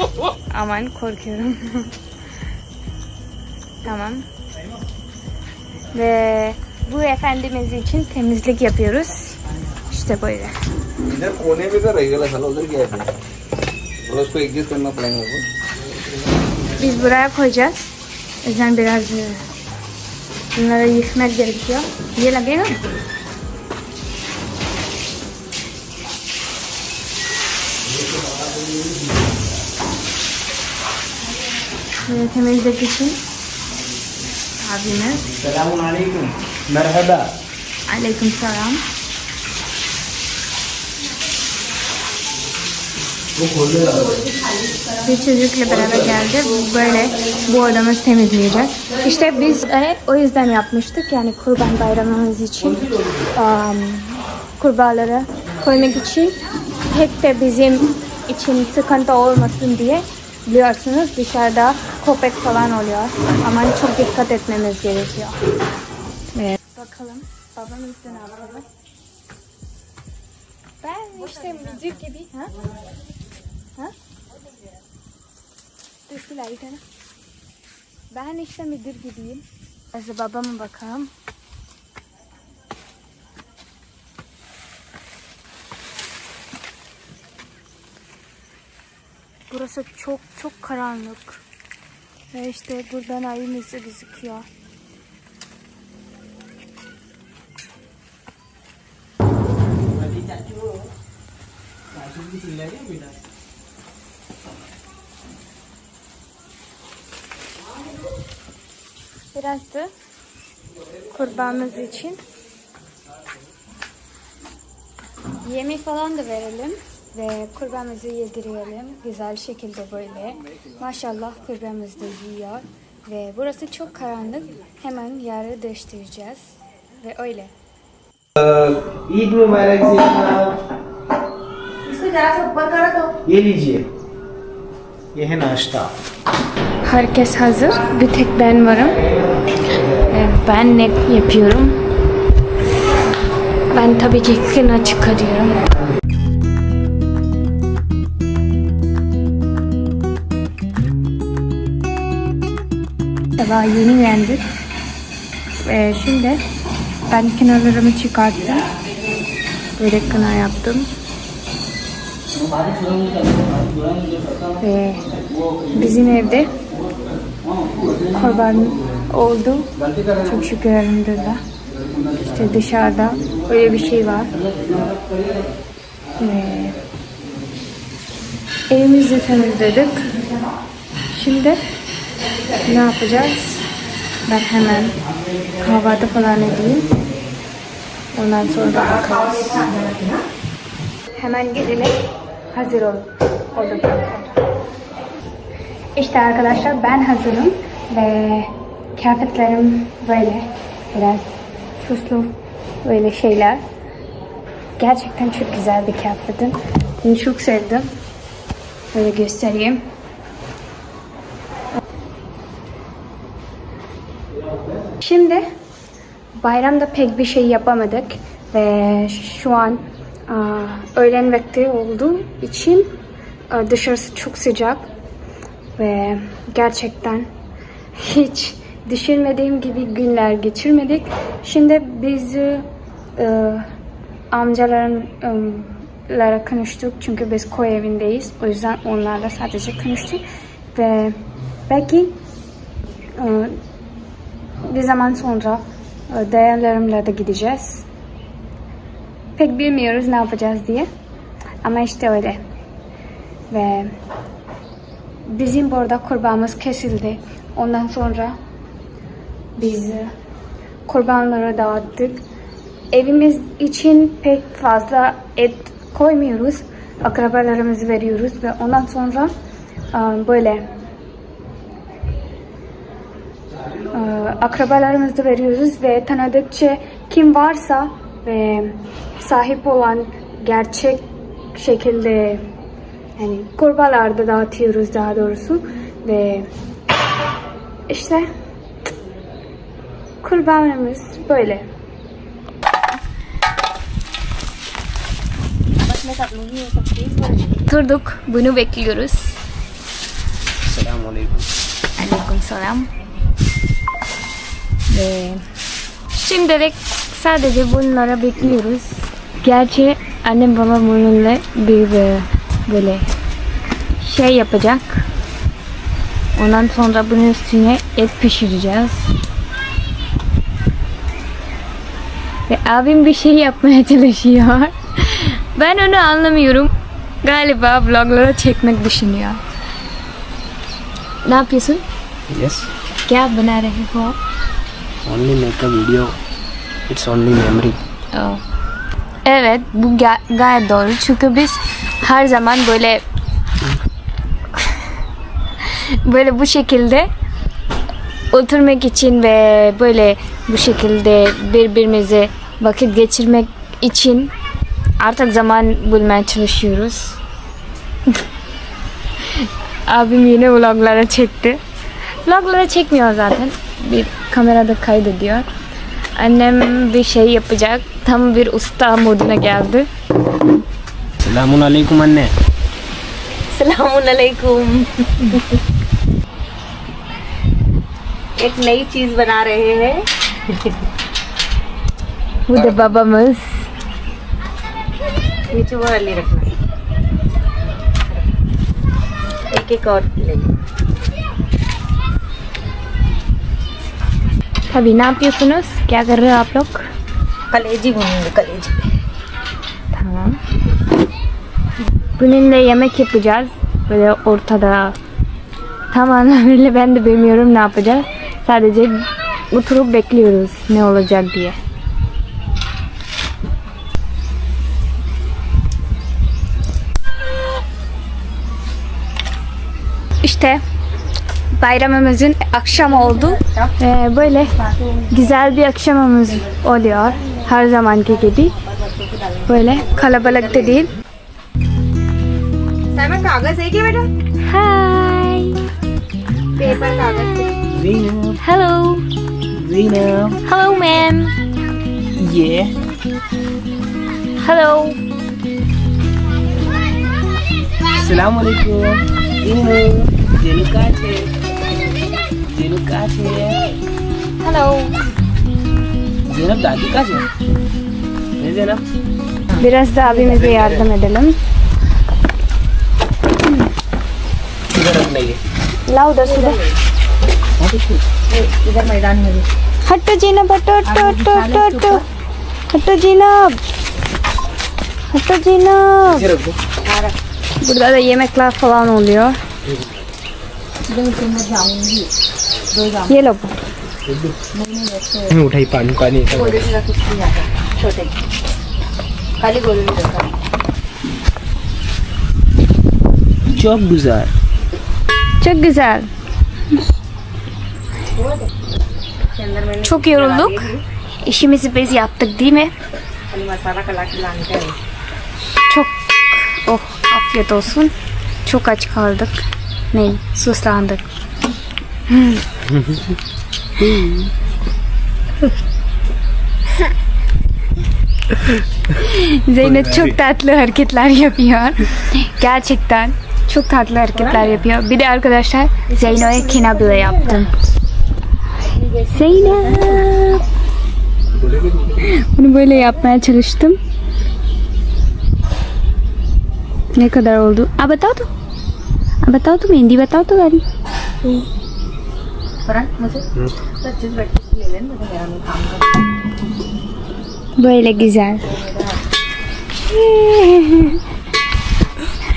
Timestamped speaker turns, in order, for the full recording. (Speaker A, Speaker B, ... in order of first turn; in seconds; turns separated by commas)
Speaker A: 0.5-1.9, Speaker A: 3.8-4.2, Speaker A: 5.9-10.5, Speaker B: 11.1-13.1, Speaker B: 14.0-15.5, Speaker A: 16.8-19.4, Speaker A: 20.5-22.8, Speaker A: 32.0-33.2, Speaker A: 34.6-35.3, Speaker C: 35.4-37.3, Speaker A: 37.9-38.8, Speaker C: 43.4-44.1, Speaker D: 44.2-44.8, Speaker A: 45.0-56.4, Speaker A: 56.9-65.4, Speaker A: 66.3-68.7, Speaker A: 70.8-72.5, Speaker A: 76.1-76.8, Speaker A: 78.1-81.1, Speaker A: 89.5-91.4, Speaker A: 92.3-94.5, Speaker C: 102.4-102.7, Speaker A: 109.3-109.9, Speaker A: 111.1-112.2, Speaker A: 115.4-127.5, Speaker C: 128.4-130.6, Speaker D: 131.8-133.2, Speaker C: 133.2-133.9, Speaker C: 135.1-135.9, Speaker A: 136.8-139.0, Speaker A: 139.9-141.8, Speaker A: 143.7-145.7, Speaker A: 153.4-154.4, Speaker A: 155.6-156.4, Speaker A: 157.1-158.7, Speaker A: 159.8-160.9, Speaker A: 164.6-165.1, Speaker A: 165.7-166.5, Speaker A: 168.1-171.4, Speaker A: 172.2-174.3, Speaker A: 176.2-176.8, Speaker A: 178.7-180.1, Speaker A: 181.1-181.6, Speaker A: 182.6-183.7, Speaker A: 184.3-185.0, Speaker A: 185.6-186.9, Speaker A: 188.1-189.6, Speaker D: 189.3-190.2, Speaker A: 191.2-192.0, Speaker A: 192.5-194.2, Speaker A: 195.9-203.6, Speaker A: 204.8-207.9, Speaker A: 208.9-209.8, Speaker A: 215.0-215.4, Speaker A: 216.4-222.9, Speaker A: 223.5-224.9, Speaker A: 225.8-227.3, Speaker A: 227.9-232.7, Speaker A: 233.2-233.7, Speaker A: 234.3-240.2, Speaker A: 240.7-242.2, Speaker A: 243.2-243.6, Speaker A: 244.6-247.9, Speaker A: 249.4-250.9, Speaker A: 251.6-252.4, Speaker A: 253.5-253.9, Speaker A: 255.3-258.4, Speaker A: 259.6-260.1, Speaker A: 260.9-262.2, Speaker A: 262.9-269.3, Speaker A: 269.9-270.7, Speaker A: 273.9-282.5, Speaker A: 283.2-286.5, Speaker A: 287.9-288.3, Speaker A: 290.2-291.7, Speaker D: 295.8-297.6, Speaker A: 297.7-299.4, Speaker C: 300.6-301.5, Speaker A: 302.0-302.9, Speaker A: 304.9-305.4, Speaker A: 306.1-313.1, Speaker A: 314.0-315.1, Speaker A: 316.4-319.1, Speaker A: 322.5-326.7, Speaker A: 327.2-329.4, Speaker A: 331.2-331.8, Speaker C: 332.3-332.7, Speaker A: 333.1-334.2, Speaker C: 335.1-336.2, Speaker C: 336.9-337.8, Speaker A: 338.1-338.4, Speaker A: 339.2-343.0, Speaker A: 345.6-347.1, Speaker A: 348.3-354.3, Speaker A: 355.0-357.2, Speaker A: 359.3-361.6, Speaker A: 362.2-365.5, Speaker A: 366.2-369.9, Speaker C: 371.2-372.3, Speaker D: 373.5-375.4, Speaker D: 378.4-380.8, Speaker A: 382.5-383.7, Speaker D: 385.5-386.5, Speaker D: 389.5-390.5, Speaker A: 394.7-396.9, Speaker D: 397.5-398.8, Speaker A: 399.9-400.4, Speaker A: 402.2-405.0, Speaker A: 405.9-411.6, Speaker A: 420.2-420.6, Speaker A: 421.6-424.6, Speaker D: 422.8-423.7, Speaker D: 424.4-425.2, Speaker A: 425.1-428.6, Speaker D: 428.3-430.4, Speaker A: 429.5-430.9, Speaker D: 432.9-434.1, Speaker A: 434.4-435.6, Speaker D: 436.6-437.6, Speaker C: 437.7-438.4, Speaker A: 438.4-439.1, Speaker C: 439.5-440.4, Speaker A: 440.4-441.3, Speaker C: 442.1-442.7, Speaker A: 444.4-445.0, Speaker C: 447.9-451.3, Speaker C: 452.5-453.6, Speaker A: 454.4-455.0, Speaker C: 456.3-457.3, Speaker C: 458.4-458.8, Speaker D: 459.6-460.6, Speaker A: 459.6-461.4, Speaker C: 464.7-465.4, Speaker A: 465.9-466.6, Speaker D: 466.2-466.8, Speaker D: 468.3-469.5, Speaker A: 469.8-472.0, Speaker D: 470.9-472.0, Speaker A: 472.7-473.6, Speaker A: 475.1-476.3, Speaker C: 476.1-476.6, Speaker D: 476.8-477.2, Speaker A: 477.6-479.4, Speaker D: 480.9-482.1, Speaker D: 482.7-483.2, Speaker A: 483.1-483.6, Speaker C: 484.1-484.4, Speaker D: 484.5-485.4, Speaker C: 485.3-486.7, Speaker D: 486.3-488.1, Speaker D: 489.4-490.3, Speaker C: 493.5-494.3, Speaker A: 495.4-496.1, Speaker D: 498.2-498.5, Speaker D: 499.3-500.8, Speaker A: 499.8-502.7, Speaker D: 503.3-504.8, Speaker A: 505.7-507.9, Speaker A: 508.4-511.1, Speaker A: 512.1-512.4, Speaker C: 513.8-514.3, Speaker A: 518.9-527.5, Speaker C: 519.6-520.1, Speaker D: 524.1-524.6, Speaker D: 525.9-527.5, Speaker D: 528.8-530.1, Speaker A: 529.1-530.4, Speaker B: 531.4-532.0, Speaker A: 532.0-533.8, Speaker A: 537.0-538.3, Speaker A: 539.2-540.6, Speaker D: 542.6-543.3, Speaker D: 543.8-546.1, Speaker A: 547.6-548.5, Speaker D: 548.4-549.0, Speaker A: 549.9-551.0